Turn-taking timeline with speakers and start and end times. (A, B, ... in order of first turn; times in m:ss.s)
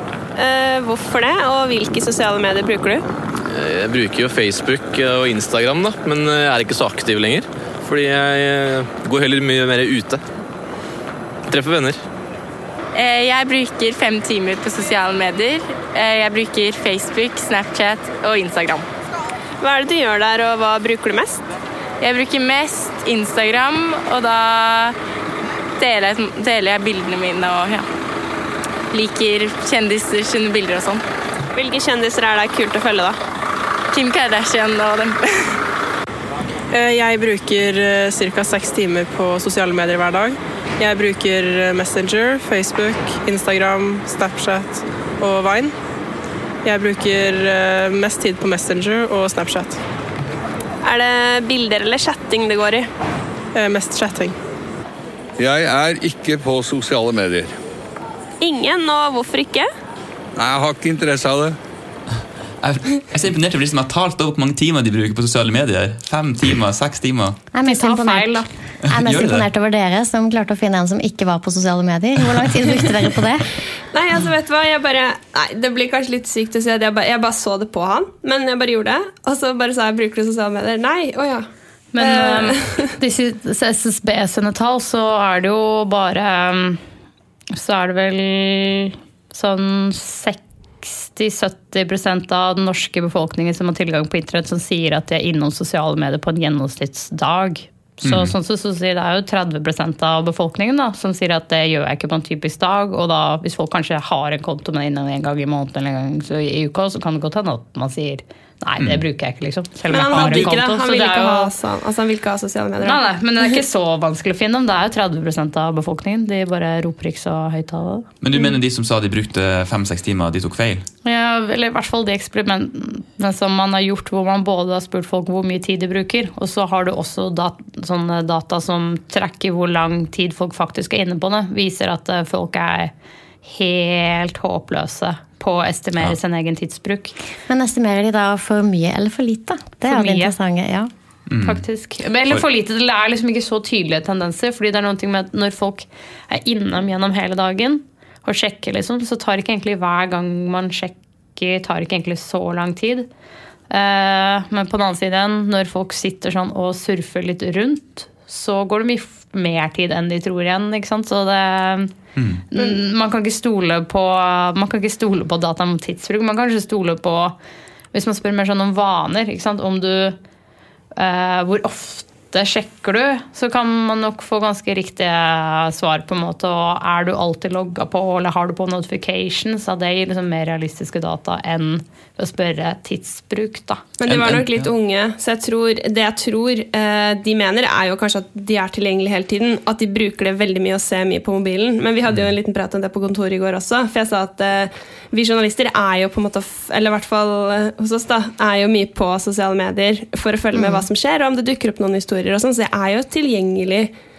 0:00.4-0:03.0 A
0:03.5-0:10.2 B
0:11.5-0:12.0 B
0:13.0-0:18.8 C
0:19.6-0:21.4 A
0:22.0-0:25.0 C
0:25.8-0:27.9 C
0:28.9-0:31.0 C
0:31.5-0:33.2 A
0:33.9-0:35.5 C
0:36.7-0:45.8 D
0:46.6-0:49.8 D
0:50.8-0:52.9 A
0:53.5-0:54.4 D
0:55.4-0:57.5 E
0:58.4-0:59.7 A
1:00.4-1:01.6 E
1:02.6-1:07.4 F
1:07.5-1:13.5 G
1:07.6-1:08.5 H
1:09.0-1:09.5 F
1:13.9-1:21.5 A
1:21.9-1:26.8 H
1:22.0-1:22.9 A
1:27.5-1:51.5 H
1:38.0-1:38.3 F
1:49.9-1:53.0 A
1:50.1-1:50.5 F
1:52.8-1:58.1 H
1:58.2-2:00.9 F
2:01.0-2:12.9 H
2:13.4-2:17.2 H
2:17.5-2:20.9 G
2:19.9-2:20.4 H
2:21.3-2:21.6 F
2:21.4-2:33.1 H
2:33.7-2:41.9 H
2:42.2-2:42.4 F
2:42.5-2:47.4 H
2:47.9-2:50.2 H
2:51.0-3:03.8 H
3:04.0-3:23.9 A
3:04.1-3:04.7 F
3:20.6-3:20.8 G